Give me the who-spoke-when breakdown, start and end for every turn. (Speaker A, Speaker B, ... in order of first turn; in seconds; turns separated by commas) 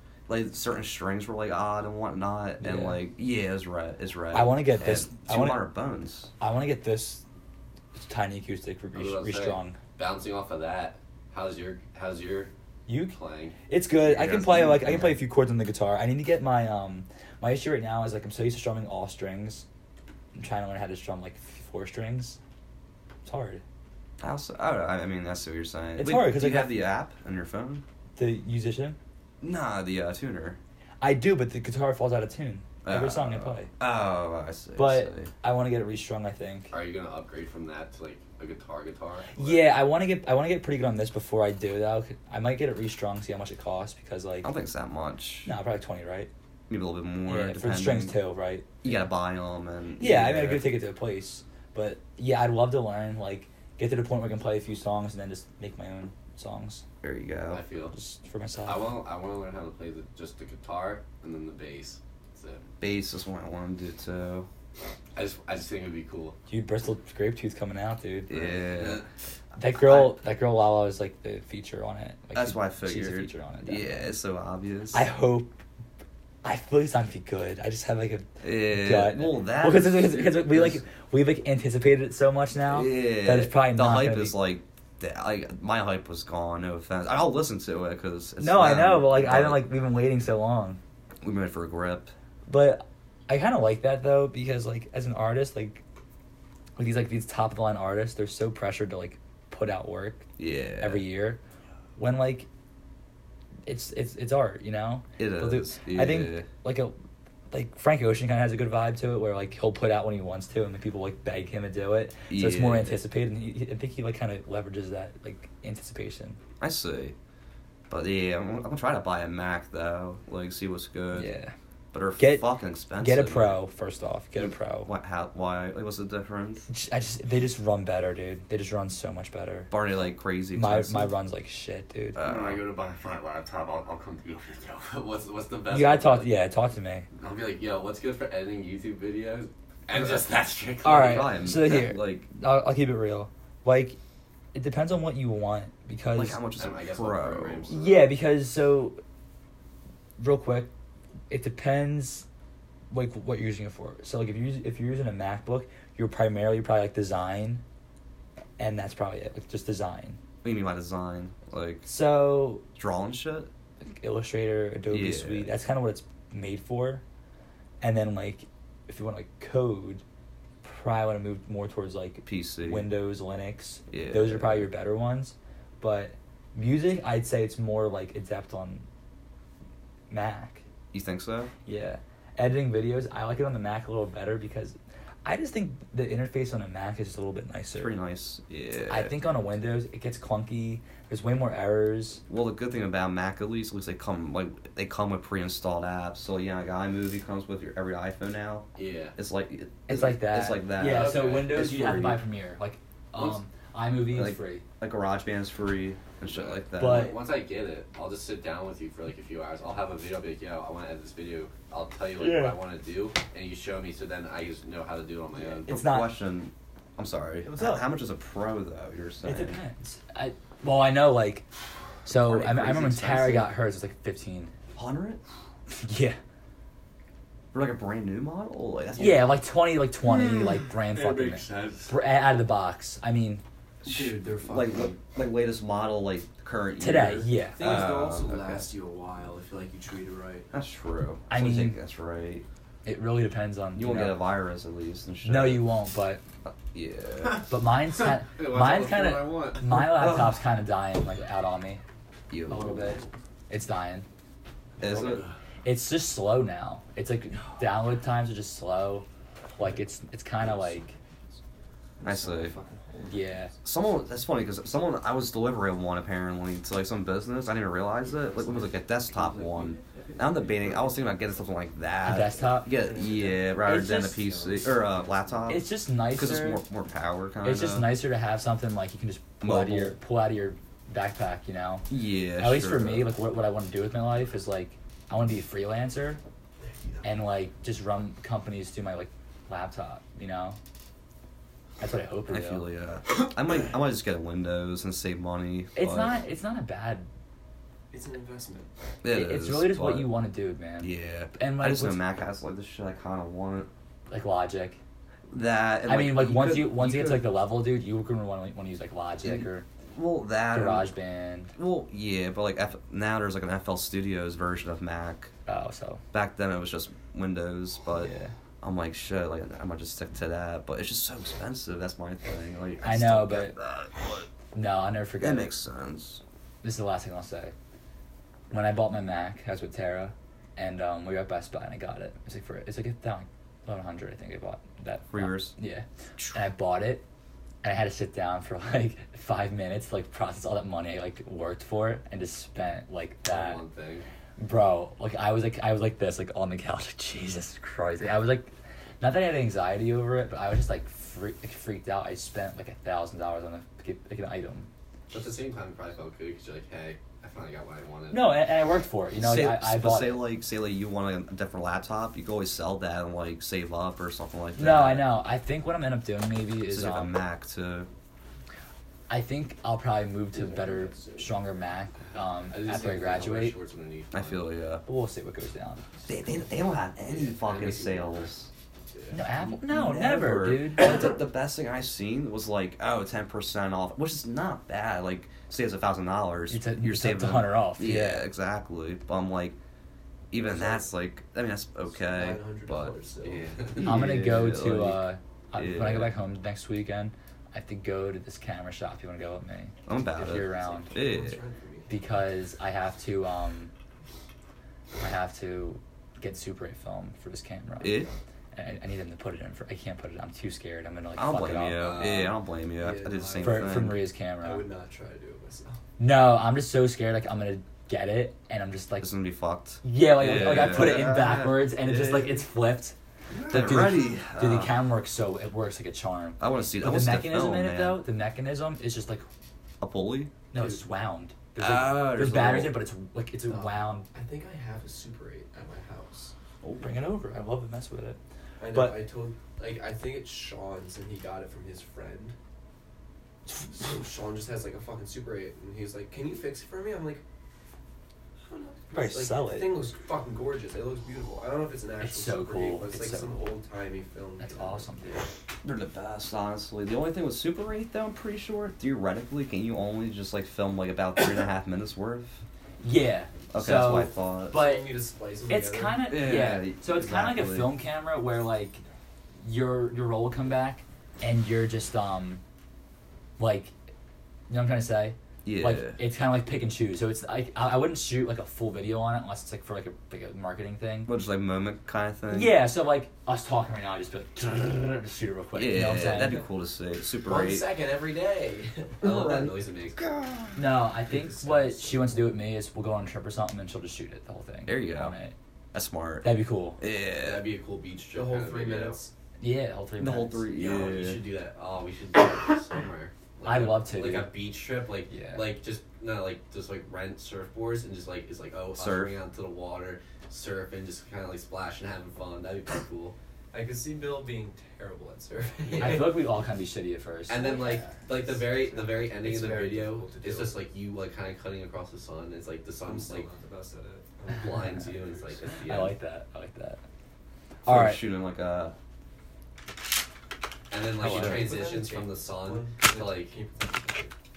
Speaker A: 0.3-6.3, Speaker B: 2.6-3.0, Speaker B: 4.3-5.6, Speaker B: 6.4-7.2, Speaker B: 7.9-9.8, Speaker C: 8.9-12.5, Speaker B: 12.9-13.1, Speaker C: 13.1-13.5, Speaker B: 13.7-19.6, Speaker A: 14.0-15.2, Speaker B: 20.3-22.4, Speaker B: 23.2-23.6, Speaker A: 24.2-27.8, Speaker B: 26.0-26.7, Speaker B: 28.1-29.0, Speaker A: 29.4-30.6, Speaker B: 31.0-33.7, Speaker A: 32.8-35.3, Speaker B: 34.8-36.7, Speaker C: 36.7-39.6, Speaker B: 39.3-44.5, Speaker A: 44.4-45.5, Speaker B: 45.4-46.3, Speaker A: 46.7-48.2, Speaker B: 47.2-49.1, Speaker A: 48.8-50.7, Speaker B: 50.0-56.8, Speaker A: 57.0-57.6, Speaker C: 57.5-58.0, Speaker B: 57.9-58.9, Speaker C: 58.6-62.6, Speaker A: 62.8-64.5, Speaker C: 65.1-66.3, Speaker B: 66.5-68.6, Speaker A: 68.3-69.0, Speaker C: 68.6-69.1, Speaker B: 69.6-74.0, Speaker A: 69.7-70.2, Speaker A: 72.3-75.0, Speaker B: 74.9-75.6, Speaker B: 76.4-84.4, Speaker A: 78.4-80.8, Speaker A: 82.6-89.6, Speaker B: 88.4-90.8, Speaker A: 91.2-92.1, Speaker B: 92.5-95.8, Speaker B: 96.8-101.4, Speaker A: 100.4-101.0, Speaker B: 102.0-102.5, Speaker B: 103.7-106.9, Speaker A: 105.2-106.5, Speaker B: 107.5-116.4, Speaker A: 112.3-113.0, Speaker A: 116.6-117.1, Speaker A: 117.9-121.3, Speaker B: 121.1-121.5, Speaker A: 121.9-123.6, Speaker B: 122.2-124.9, Speaker A: 124.3-126.7, Speaker B: 126.7-129.7, Speaker A: 129.7-131.1, Speaker B: 130.5-132.2, Speaker A: 132.2-132.6, Speaker C: 132.2-136.3, Speaker B: 135.7-137.1, Speaker C: 137.2-141.4, Speaker B: 140.8-144.0, Speaker A: 140.9-142.3, Speaker B: 144.5-146.4, Speaker A: 146.1-147.7, Speaker C: 146.6-148.1, Speaker B: 147.7-149.0, Speaker B: 150.2-150.7, Speaker B: 151.3-152.2, Speaker B: 152.9-157.6, Speaker B: 158.6-160.2, Speaker A: 160.4-161.9, Speaker B: 161.8-162.6, Speaker A: 162.7-163.5, Speaker B: 163.8-167.0, Speaker A: 164.9-165.5, Speaker B: 167.8-170.0, Speaker B: 170.6-178.8, Speaker A: 172.2-172.9, Speaker A: 173.9-174.7, Speaker B: 180.1-180.6, Speaker A: 180.9-181.5, Speaker B: 181.7-188.0, Speaker A: 187.7-189.1, Speaker B: 188.9-192.2, Speaker A: 192.3-202.2, Speaker C: 198.8-199.2, Speaker B: 199.9-204.6, Speaker C: 200.9-201.5, Speaker A: 204.1-207.2, Speaker C: 206.2-215.7, Speaker B: 206.8-207.1, Speaker B: 212.2-212.6, Speaker B: 215.4-216.1, Speaker A: 215.7-219.6, Speaker B: 217.4-217.9, Speaker B: 219.2-221.4, Speaker B: 222.0-224.5, Speaker A: 222.1-223.5, Speaker A: 224.7-225.2, Speaker B: 225.7-226.2, Speaker A: 227.5-229.3, Speaker B: 229.0-233.4, Speaker A: 230.0-230.6, Speaker C: 230.9-231.9, Speaker D: 233.8-235.0, Speaker A: 233.8-238.7, Speaker B: 236.8-237.6, Speaker D: 237.6-240.5, Speaker A: 240.5-242.4, Speaker B: 241.3-241.8, Speaker B: 242.8-244.2, Speaker A: 243.7-245.7, Speaker B: 245.2-246.2, Speaker A: 246.4-247.4, Speaker B: 247.5-251.8, Speaker C: 248.0-249.6, Speaker A: 249.7-250.4, Speaker A: 252.3-253.0, Speaker B: 252.5-254.1, Speaker A: 254.8-255.2, Speaker C: 255.0-255.3, Speaker B: 255.6-259.1, Speaker B: 259.6-260.9, Speaker D: 262.0-263.3, Speaker A: 262.0-262.5, Speaker B: 263.1-263.5, Speaker A: 263.6-277.9, Speaker D: 268.0-271.2, Speaker B: 272.0-272.7, Speaker D: 272.6-275.6, Speaker B: 273.6-274.2, Speaker B: 275.5-276.6, Speaker B: 277.4-286.2, Speaker A: 279.4-279.9, Speaker A: 281.9-283.1, Speaker B: 287.0-290.6, Speaker B: 291.8-292.6, Speaker A: 292.3-296.2, Speaker B: 295.7-297.1, Speaker D: 297.9-298.7, Speaker A: 299.0-300.1, Speaker B: 299.1-302.0, Speaker A: 300.8-303.7, Speaker B: 304.1-304.8, Speaker A: 305.3-307.3, Speaker B: 305.9-309.6, Speaker A: 309.2-310.9, Speaker B: 310.5-311.5, Speaker A: 311.5-315.3, Speaker B: 315.4-316.0, Speaker A: 316.1-324.2, Speaker B: 318.0-318.3, Speaker B: 322.8-323.6, Speaker B: 324.5-325.5, Speaker A: 325.2-326.2, Speaker B: 326.6-327.5, Speaker B: 328.5-337.1, Speaker A: 335.1-335.5, Speaker B: 337.6-343.6, Speaker C: 343.3-344.1, Speaker B: 344.4-354.7, Speaker C: 355.1-358.4, Speaker B: 358.1-360.3, Speaker A: 359.2-365.1, Speaker B: 364.6-367.2, Speaker A: 366.7-367.9, Speaker B: 369.1-373.6, Speaker D: 370.4-371.2, Speaker C: 372.5-374.5, Speaker A: 374.1-374.8, Speaker B: 374.9-375.8, Speaker A: 376.1-378.5, Speaker C: 377.1-378.3, Speaker B: 379.1-380.8, Speaker A: 379.3-389.6, Speaker B: 386.5-388.3, Speaker A: 390.3-393.0, Speaker D: 390.4-390.9, Speaker D: 392.0-393.6, Speaker C: 393.2-393.9, Speaker A: 393.7-396.1, Speaker B: 393.8-400.9, Speaker A: 399.9-401.4, Speaker D: 400.3-402.0, Speaker B: 401.9-403.7, Speaker B: 405.0-412.1, Speaker A: 407.8-408.1, Speaker A: 411.1-414.0, Speaker C: 411.9-412.2, Speaker D: 412.2-415.8, Speaker B: 413.4-414.6, Speaker B: 416.0-419.1, Speaker A: 419.0-422.4, Speaker B: 419.8-422.9, Speaker A: 423.5-424.7, Speaker B: 423.5-429.2, Speaker A: 426.4-428.0, Speaker A: 429.8-430.3, Speaker B: 430.5-434.1, Speaker D: 430.6-430.8, Speaker A: 431.6-432.8, Speaker D: 433.5-436.3, Speaker A: 436.6-436.9, Speaker B: 436.8-438.2, Speaker D: 438.6-442.3, Speaker B: 438.7-439.0, Speaker D: 443.7-447.2, Speaker D: 448.5-455.3, Speaker B: 448.9-449.7, Speaker B: 452.0-453.4, Speaker B: 454.4-455.2, Speaker A: 455.6-462.4, Speaker B: 462.8-464.9, Speaker A: 463.5-464.6, Speaker D: 464.5-466.0, Speaker B: 465.5-468.8, Speaker A: 466.1-467.7, Speaker B: 469.4-472.4, Speaker B: 473.4-473.7, Speaker B: 474.5-481.1, Speaker A: 475.4-476.0, Speaker A: 481.1-482.6, Speaker B: 482.3-486.4, Speaker A: 485.5-487.7, Speaker D: 487.2-489.0, Speaker C: 489.0-490.0, Speaker A: 489.0-490.6, Speaker B: 490.6-495.3, Speaker D: 491.1-492.0, Speaker A: 494.6-495.1, Speaker A: 495.7-497.4, Speaker B: 496.2-496.8, Speaker C: 497.2-499.0, Speaker D: 498.1-499.1, Speaker B: 499.4-500.4, Speaker A: 500.0-501.2, Speaker C: 500.6-513.1, Speaker B: 503.4-504.3, Speaker B: 505.1-505.4, Speaker A: 508.7-509.1, Speaker D: 513.5-516.2, Speaker C: 515.6-516.2, Speaker B: 515.8-517.4, Speaker C: 517.3-523.3, Speaker D: 518.1-520.6, Speaker D: 522.8-525.5, Speaker C: 524.3-525.9, Speaker B: 525.6-526.8, Speaker B: 527.6-528.0, Speaker A: 527.6-528.7, Speaker C: 530.7-533.3, Speaker A: 531.0-531.5, Speaker B: 531.0-531.3, Speaker D: 531.1-534.1